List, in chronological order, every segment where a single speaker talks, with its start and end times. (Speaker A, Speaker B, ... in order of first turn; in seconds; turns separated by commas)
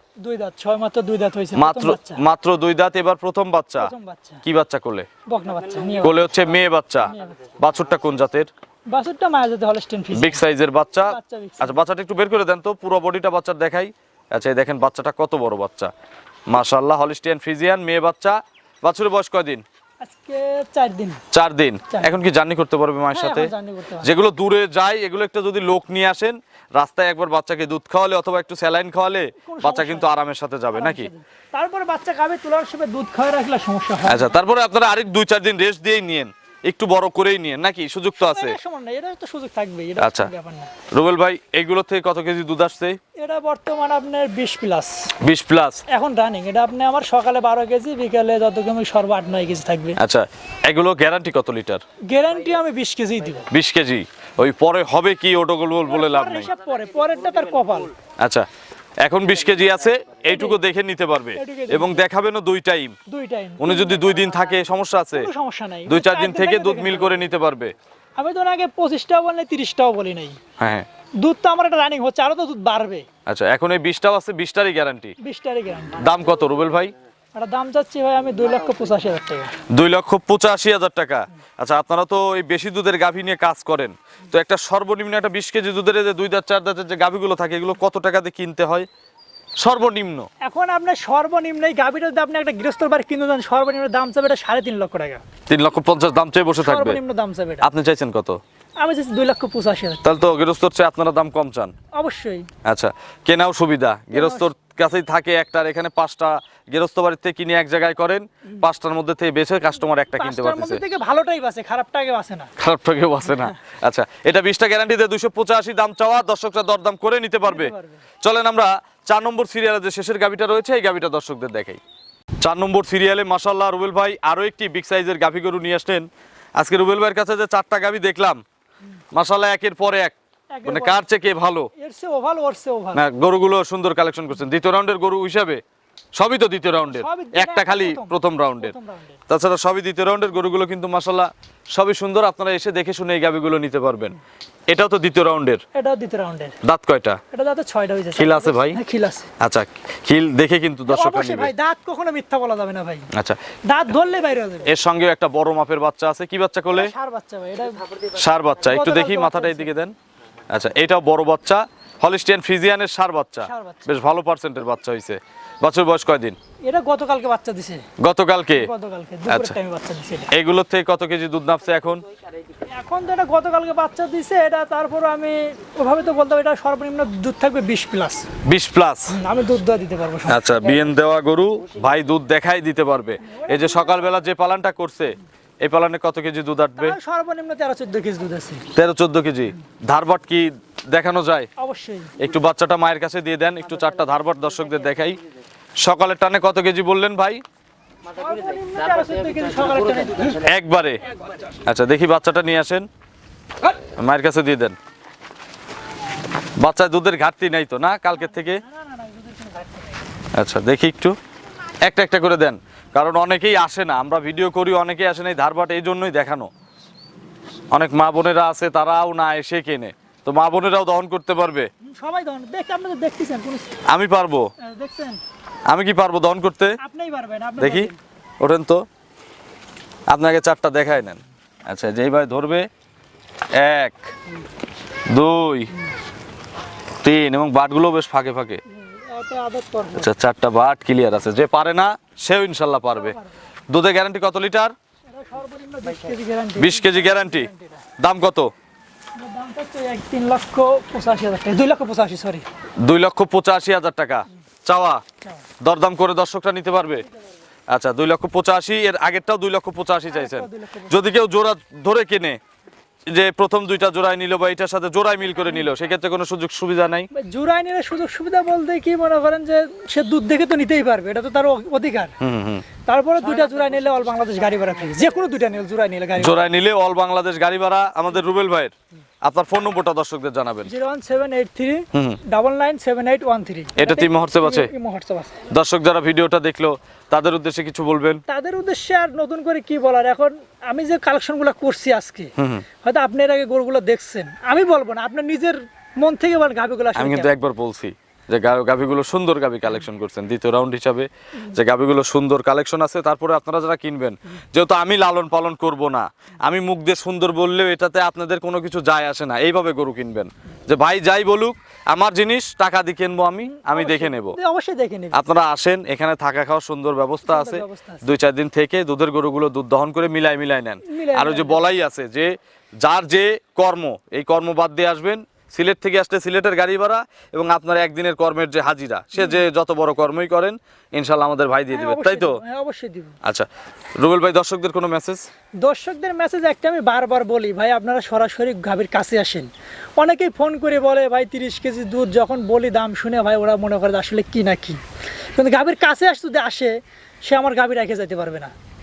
Speaker A: 0.2-2.2, Speaker B: 1.6-3.9, Speaker A: 3.8-4.4, Speaker B: 4.4-5.1, Speaker A: 5.3-6.4, Speaker B: 6.0-8.5, Speaker A: 7.0-7.4, Speaker A: 8.9-10.4, Speaker B: 10.1-15.9, Speaker A: 11.0-11.8, Speaker B: 16.5-19.6, Speaker A: 20.0-21.2, Speaker B: 21.3-23.5, Speaker A: 21.9-22.2, Speaker A: 23.1-24.1, Speaker B: 24.0-31.1, Speaker A: 29.4-30.1, Speaker A: 30.7-34.4, Speaker B: 34.0-38.5, Speaker A: 38.1-40.7, Speaker B: 40.0-40.3, Speaker B: 40.9-43.0, Speaker A: 43.1-45.1, Speaker B: 45.2-45.8, Speaker A: 45.9-50.0, Speaker B: 50.0-51.8, Speaker A: 52.1-53.5, Speaker B: 53.5-56.5, Speaker A: 55.8-57.9, Speaker B: 58.2-58.5, Speaker B: 59.0-62.9, Speaker A: 60.3-60.6, Speaker A: 61.4-62.0, Speaker A: 63.1-64.2, Speaker B: 63.6-65.3, Speaker A: 65.1-67.3, Speaker B: 65.9-67.7, Speaker A: 68.2-70.4, Speaker B: 70.6-70.9, Speaker A: 71.2-73.0, Speaker B: 73.2-75.1, Speaker A: 75.2-76.1, Speaker B: 76.0-76.9, Speaker A: 77.3-79.5, Speaker B: 79.7-88.9, Speaker B: 89.6-90.3, Speaker A: 90.4-95.2, Speaker B: 95.5-97.0, Speaker A: 96.6-97.7, Speaker B: 97.6-98.4, Speaker A: 98.8-100.1, Speaker B: 100.0-101.7, Speaker A: 101.9-102.5, Speaker B: 102.6-110.8, Speaker A: 104.1-104.5, Speaker A: 110.1-112.5, Speaker B: 112.6-121.8, Speaker A: 113.3-113.5, Speaker A: 117.4-118.0, Speaker B: 122.4-128.4, Speaker B: 129.1-130.1, Speaker A: 130.5-131.1, Speaker B: 130.7-131.7, Speaker A: 131.8-133.0, Speaker B: 132.9-135.6, Speaker B: 136.2-138.7, Speaker A: 136.8-139.2, Speaker B: 139.3-144.2, Speaker B: 144.7-145.6, Speaker A: 145.7-146.5, Speaker B: 146.6-147.2, Speaker A: 147.3-149.3, Speaker B: 148.2-148.8, Speaker B: 149.4-151.5, Speaker A: 150.9-153.1, Speaker B: 153.1-153.4, Speaker A: 153.7-154.7, Speaker B: 154.7-156.9, Speaker A: 156.7-158.0, Speaker B: 158.1-159.9, Speaker A: 158.6-159.7, Speaker B: 160.5-166.3, Speaker A: 163.4-163.9, Speaker A: 166.7-167.8, Speaker B: 168.0-168.7, Speaker A: 168.5-170.3, Speaker B: 169.3-169.5, Speaker B: 170.3-172.0, Speaker A: 172.7-178.3, Speaker B: 178.4-179.1, Speaker A: 179.1-180.5, Speaker B: 180.3-186.9, Speaker A: 183.2-184.1, Speaker A: 186.8-188.6, Speaker B: 188.7-191.5, Speaker A: 191.6-192.2, Speaker B: 192.2-195.2, Speaker B: 195.8-197.4, Speaker A: 198.1-200.5, Speaker B: 200.4-201.0, Speaker A: 201.1-201.4, Speaker B: 201.6-202.9, Speaker B: 203.9-204.8, Speaker B: 206.6-208.6, Speaker A: 208.1-210.1, Speaker B: 210.3-211.1, Speaker B: 211.8-216.5, Speaker B: 217.7-221.7, Speaker A: 221.8-223.8, Speaker B: 223.9-224.4, Speaker A: 224.6-225.2, Speaker B: 225.7-226.8, Speaker A: 226.8-228.0, Speaker B: 227.6-227.9, Speaker B: 228.4-228.8, Speaker B: 230.1-232.7, Speaker B: 233.5-234.1, Speaker B: 235.1-235.7, Speaker B: 237.0-238.6, Speaker A: 238.7-240.1, Speaker B: 239.9-243.2, Speaker A: 242.9-243.3, Speaker B: 243.7-244.7, Speaker A: 245.1-247.9, Speaker B: 246.6-248.5, Speaker A: 249.2-252.4, Speaker B: 252.8-255.0, Speaker B: 255.6-257.0, Speaker B: 257.7-262.4, Speaker A: 260.1-261.0, Speaker B: 263.1-267.1, Speaker A: 267.1-272.1, Speaker B: 272.2-272.6, Speaker A: 272.9-276.4, Speaker B: 276.2-278.7, Speaker B: 279.2-280.7, Speaker A: 280.6-285.4, Speaker B: 281.9-282.2, Speaker B: 283.8-284.7, Speaker B: 285.5-288.2, Speaker A: 288.3-297.3, Speaker B: 292.4-292.6, Speaker B: 296.9-314.4, Speaker A: 313.4-315.2, Speaker B: 315.1-332.4, Speaker A: 317.2-318.0, Speaker A: 320.8-321.7, Speaker A: 329.1-329.4, Speaker A: 331.7-333.2, Speaker B: 334.0-335.2, Speaker A: 335.6-344.8, Speaker A: 345.3-348.5